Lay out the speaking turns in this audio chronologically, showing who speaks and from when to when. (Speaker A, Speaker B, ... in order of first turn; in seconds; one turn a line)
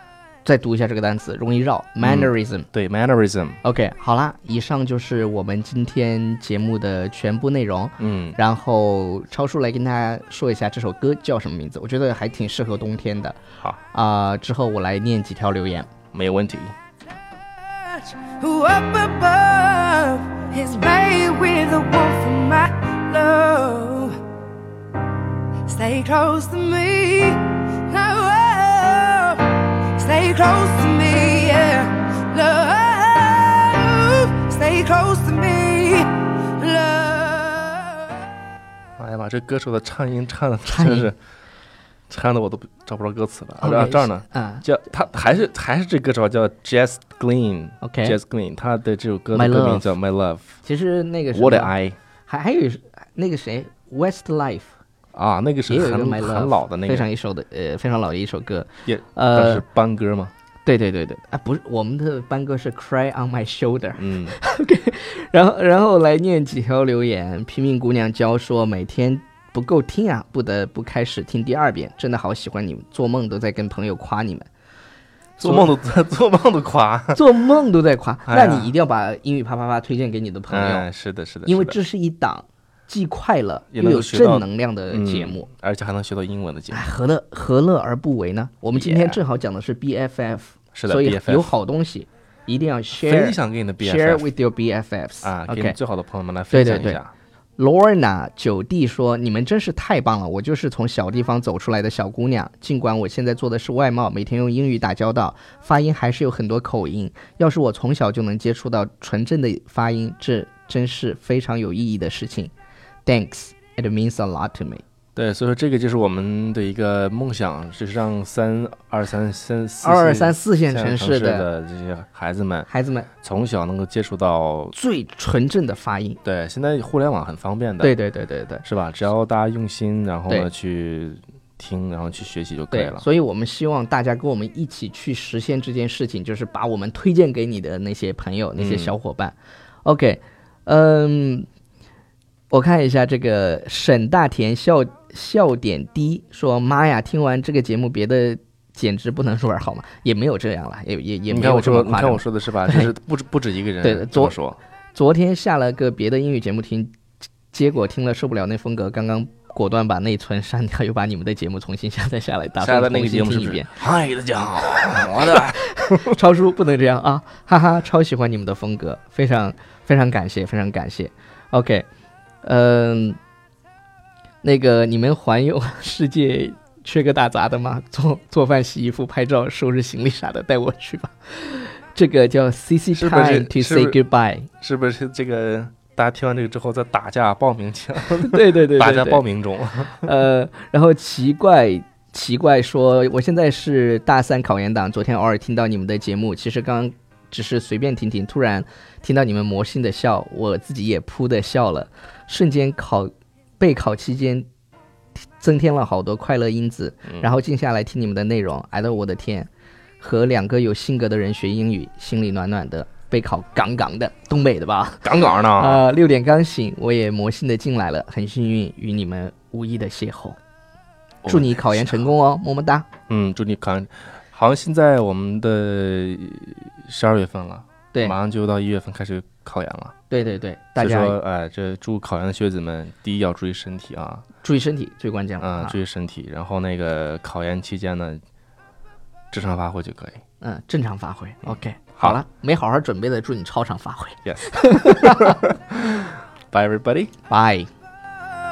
Speaker A: 0.4-2.7
Speaker B: 2.0-3.6
Speaker A: 3.6-15.9
Speaker B: 8.0-8.4
Speaker B: 16.1-16.7
Speaker C: 17.9-24.2
Speaker C: 25.7-38.1
Speaker B: 39.0-41.2
Speaker A: 40.6-41.1
Speaker B: 42.1-50.6
Speaker A: 43.6-44.6
Speaker A: 47.8-48.2
Speaker A: 49.3-49.9
Speaker A: 50.6-51.7
Speaker B: 51.3-52.0
Speaker A: 52.3-54.7
Speaker B: 55.1-57.1
Speaker A: 55.7-59.6
Speaker B: 58.9-60.3
Speaker A: 60.6-74.5
Speaker B: 64.0-64.3
Speaker B: 75.4-77.2
Speaker A: 75.4-75.7
Speaker A: 77.1-80.9
Speaker B: 78.3-78.7
Speaker B: 80.5-81.8
Speaker A: 81.5-85.5
Speaker B: 83.7-86.8
Speaker A: 86.7-95.8
Speaker B: 88.7-89.2
Speaker B: 90.7-91.5
Speaker B: 92.9-94.3
Speaker B: 95.2-97.1
Speaker A: 96.5-97.0
Speaker A: 97.6-112.5
Speaker A: 113.0-114.8
Speaker B: 115.2-122.7
Speaker A: 119.8-121.5
Speaker A: 122.7-123.1
Speaker B: 123.2-124.7
Speaker A: 124.7-126.2
Speaker B: 126.2-127.9
Speaker A: 127.8-128.6
Speaker B: 128.6-133.0
Speaker A: 132.7-141.5
Speaker B: 138.6-138.9
Speaker A: 142.5-152.9
Speaker B: 151.3-154.6
Speaker A: 153.8-154.4
Speaker A: 154.9-156.9
Speaker A: 157.5-163.7
Speaker B: 162.6-166.2
Speaker A: 165.2-171.8
Speaker A: 172.4-173.2
Speaker A: 174.4-184.5
Speaker B: 182.9-184.0
Speaker B: 184.6-190.1
Speaker A: 188.2-189.2
Speaker A: 190.0-204.5
Speaker A: 205.2-220.4
Speaker B: 215.0-215.8
Speaker B: 221.2-222.1
Speaker A: 221.3-222.9
Speaker B: 223.1-229.9
Speaker A: 230.1-231.2
Speaker B: 230.8-234.2
Speaker A: 234.4-235.8
Speaker B: 235.4-238.2
Speaker B: 239.3-240.2
Speaker A: 240.4-245.4
Speaker B: 244.2-247.1
Speaker A: 247.3-247.7